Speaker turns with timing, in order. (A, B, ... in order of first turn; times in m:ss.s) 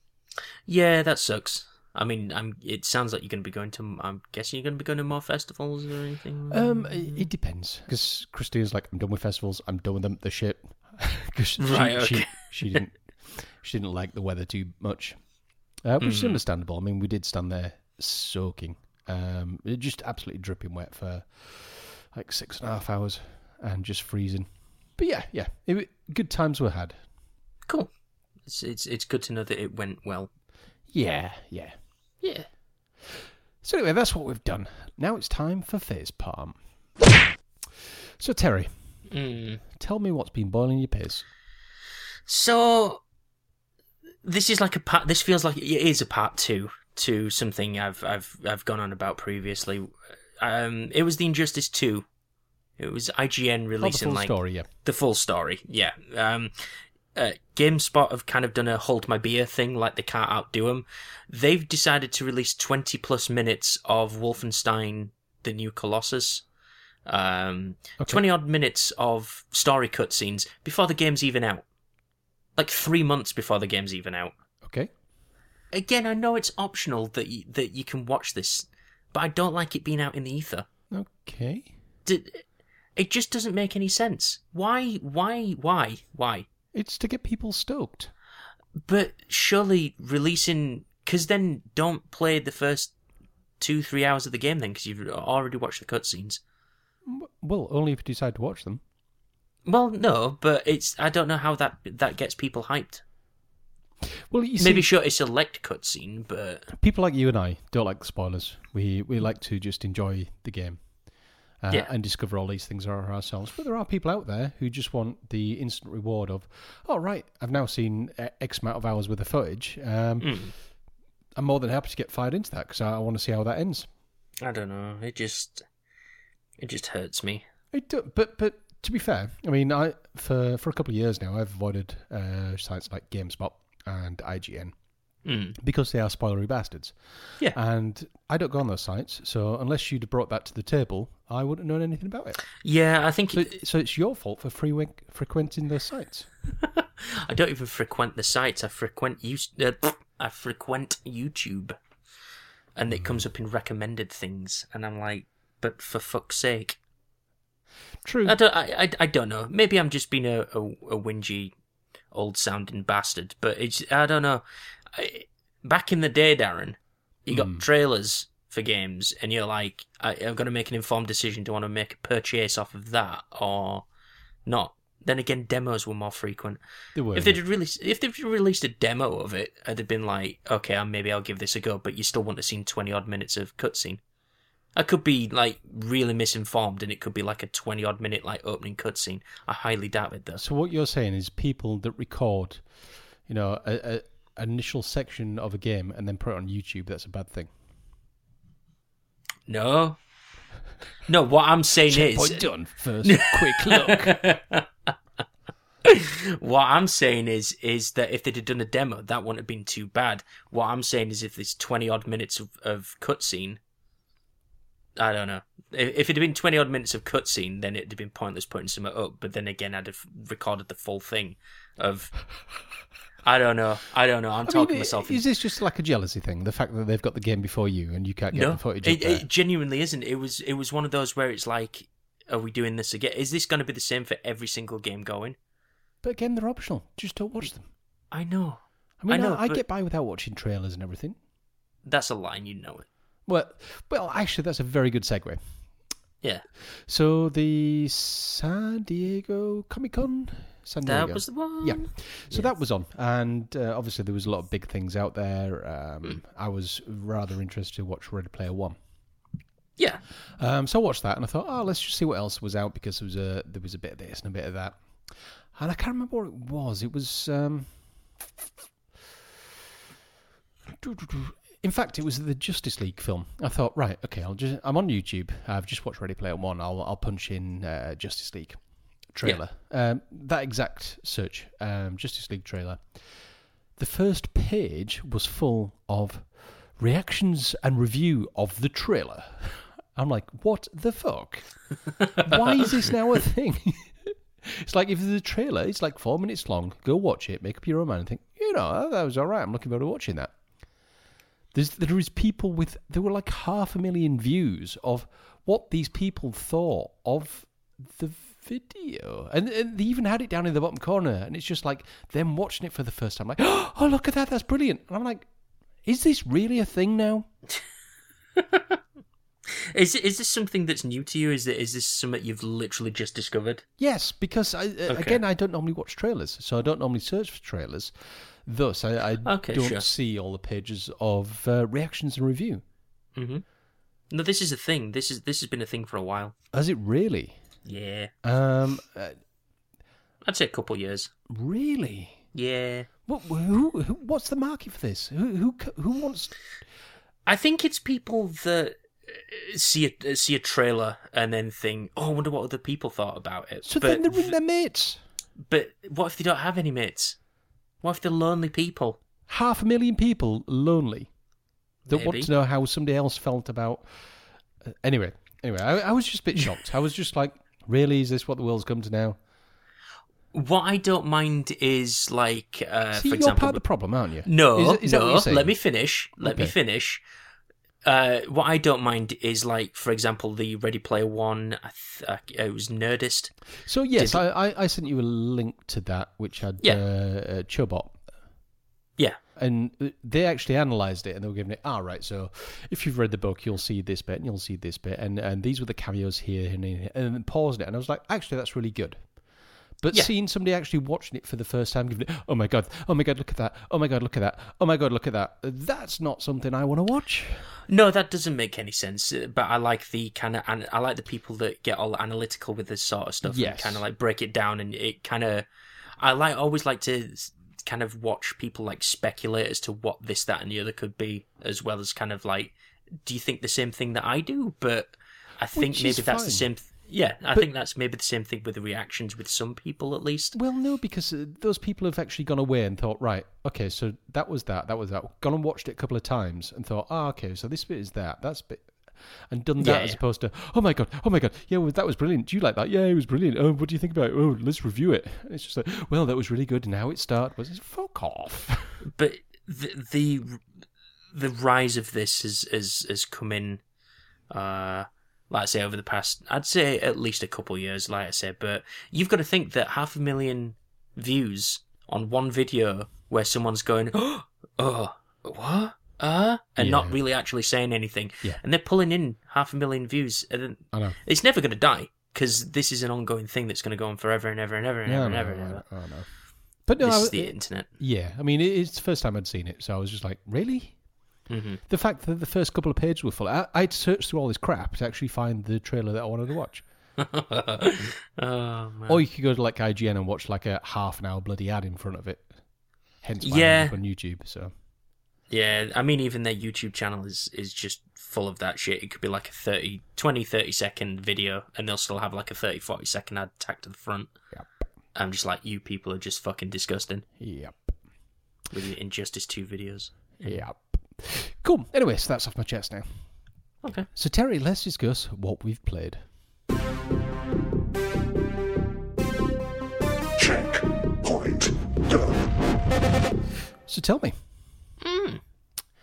0:00.7-0:07.3 A
0:06.5-0:15.2 B
0:11.6-0:12.8 A
0:15.8-0:24.5 B
0:16.0-0:16.4 A
0:25.0-0:27.0 B
0:28.5-0:30.3 A
0:30.9-0:31.8 B
0:32.2-0:32.5 A
0:33.0-0:38.7 B
0:39.1-0:39.6 A
0:39.7-0:41.3 B
0:42.3-0:43.0 A
0:44.2-0:52.0 A
0:52.8-1:06.4 A
0:53.8-0:54.7 B
1:07.1-1:11.6 A
1:12.6-1:14.3 A
1:14.6-1:14.9 B
1:15.7-1:20.7 A
1:20.9-1:21.7 B
1:22.0-1:22.4 A
1:23.0-1:26.5 A
1:26.7-1:28.1 B
1:28.8-1:32.9 A
1:33.6-1:36.4 A
1:37.0-1:38.8 B
1:39.7-1:43.0 A
1:44.2-1:44.9 B
1:44.6-1:46.7 A
1:46.7-1:50.8 B
1:51.6-2:00.4 B
2:00.2-2:00.6 A
2:01.4-2:03.9 B
2:04.4-2:05.6 A
2:06.6-2:07.4 A
2:07.7-2:14.7 B
2:15.2-2:15.6 A
2:15.6-2:22.4 B
2:22.6-2:23.6 A
2:23.3-2:26.3 B
2:26.6-2:31.8 A
2:32.8-2:36.8 A
2:38.0-2:38.4 B
2:38.2-2:41.5 A
2:42.1-2:53.9 A
2:47.3-2:47.6 B
2:54.5-2:56.6 A
2:57.0-2:57.4 B
2:57.1-3:04.0 A
3:04.8-3:10.4 A
3:10.4-3:12.6 B
3:13.3-3:17.5 B
3:19.5-3:20.0 A
3:21.1-3:22.5 A
3:21.9-3:24.2 B
3:23.0-3:24.9 A
3:25.8-3:33.6 A
3:35.0-3:42.1 A
3:43.2-3:45.2 A
3:44.5-3:49.2 B
3:48.3-3:55.4 A
3:56.0-3:57.7 B
3:58.1-3:59.6 A
3:59.0-4:01.2 B
4:01.8-4:02.9 A
4:03.3-4:05.4 B
4:06.8-4:18.8 B
4:10.8-4:12.5 A
4:20.4-4:24.8 B
4:25.5-4:27.7 B
4:30.7-4:38.6 B
4:39.1-4:42.9 B
4:43.8-4:51.5 B
4:52.2-5:00.3 B
5:01.5-5:15.2 B
5:15.8-5:17.3 B
5:18.4-5:18.8 A
5:19.5-5:23.6 A
5:23.8-5:27.9 B
5:24.9-5:25.2 A
5:28.5-5:32.6 B
5:29.2-5:29.9 A
5:33.2-5:33.4 A
5:34.1-5:36.3 A
5:36.5-5:37.4 B
5:37.6-5:38.1 A
5:38.2-5:39.2 B
5:40.2-5:41.1 A
5:41.3-5:42.2 B
5:42.3-5:42.9 A
5:43.1-5:46.4 B
5:47.3-5:54.4 A
5:53.6-5:55.0 B
5:55.5-5:57.2 A
5:57.8-5:59.0 A
5:59.3-6:01.1 B
6:01.9-6:02.3 A
6:01.9-6:03.9 B
6:04.6-6:09.2 B
6:10.3-6:13.6 A
6:12.9-6:15.5 B
6:14.2-6:17.0 A
6:16.2-6:16.5 B
6:17.8-6:23.3 A
6:23.6-6:28.0 B
6:24.0-6:24.2 A
6:29.4-6:39.0 B
6:39.8-6:47.4 B
6:47.7-6:55.5 A
6:53.2-6:53.8 B
6:56.0-7:10.4 A
7:05.6-7:06.5 B
7:10.3-7:18.7 B
7:19.3-7:28.8 B
7:19.6-7:20.0 A
7:28.8-7:30.4 A
7:31.1-7:33.6 A
7:34.3-7:55.6 A
7:46.6-7:47.0 B
7:50.7-7:51.0 B
7:54.9-7:56.1 B
7:56.7-8:00.8 B
7:56.8-7:57.7 A
8:01.3-8:01.6 A
8:01.7-8:06.6 B
8:07.0-8:09.0 A
8:08.9-8:12.3 B
8:13.0-8:14.5 B
8:13.2-8:13.8 A
8:15.3-8:24.1 A
8:25.0-8:27.0 A
8:27.2-8:27.8 B
8:28.5-8:30.4 A
8:30.2-8:33.0 B
8:33.6-8:33.9 A
8:33.9-8:36.0 B
8:40.2-8:40.5 B
8:41.1-8:41.5 B
8:43.7-8:44.2 B
8:44.8-8:45.2 A